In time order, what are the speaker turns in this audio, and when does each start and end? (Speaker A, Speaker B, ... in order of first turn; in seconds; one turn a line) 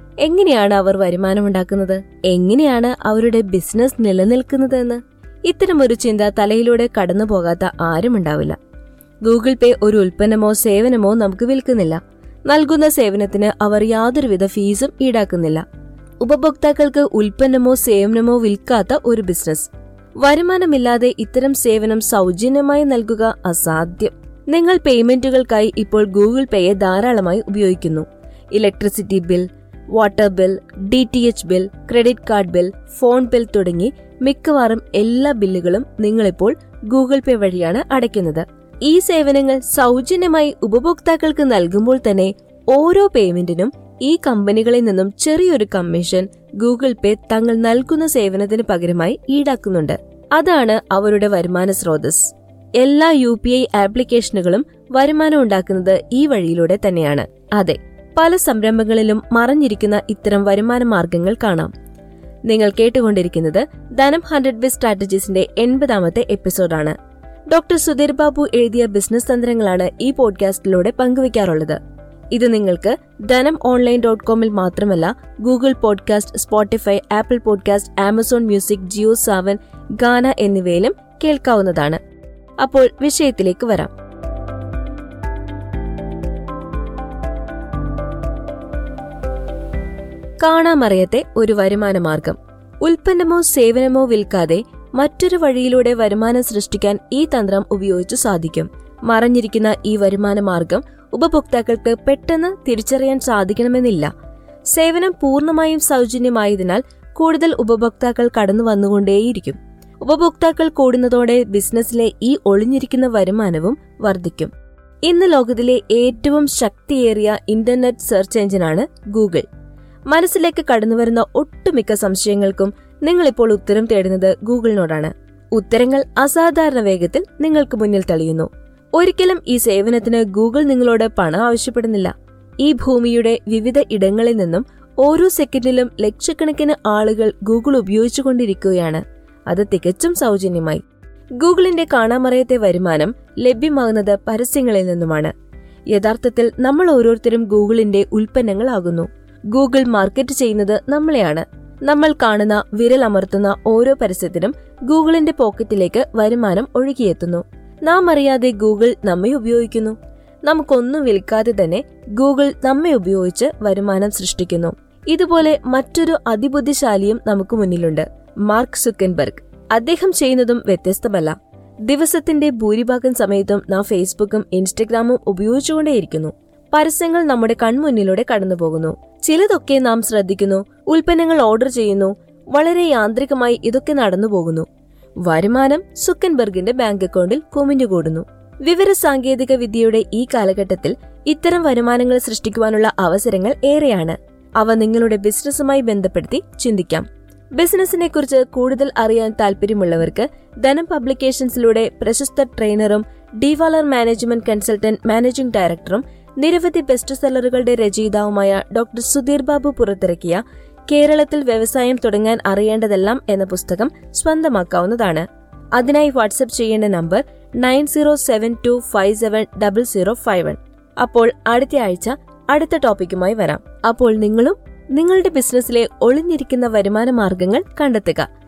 Speaker A: 0.2-8.6
Speaker A: 9.2-15.7
Speaker A: 16.2-19.7
Speaker A: 20.2-61.7
Speaker A: 62.5-67.0
Speaker A: 67.5-71.8
Speaker A: 72.3-82.0
Speaker A: 82.6-83.9
Speaker A: 90.4-104.1
Speaker A: 104.7-114.5
Speaker A: 115.0-119.5
Speaker A: 120.1-140.8
Speaker A: 141.4-145.3
Speaker A: 145.9-184.7
Speaker A: 185.2-228.3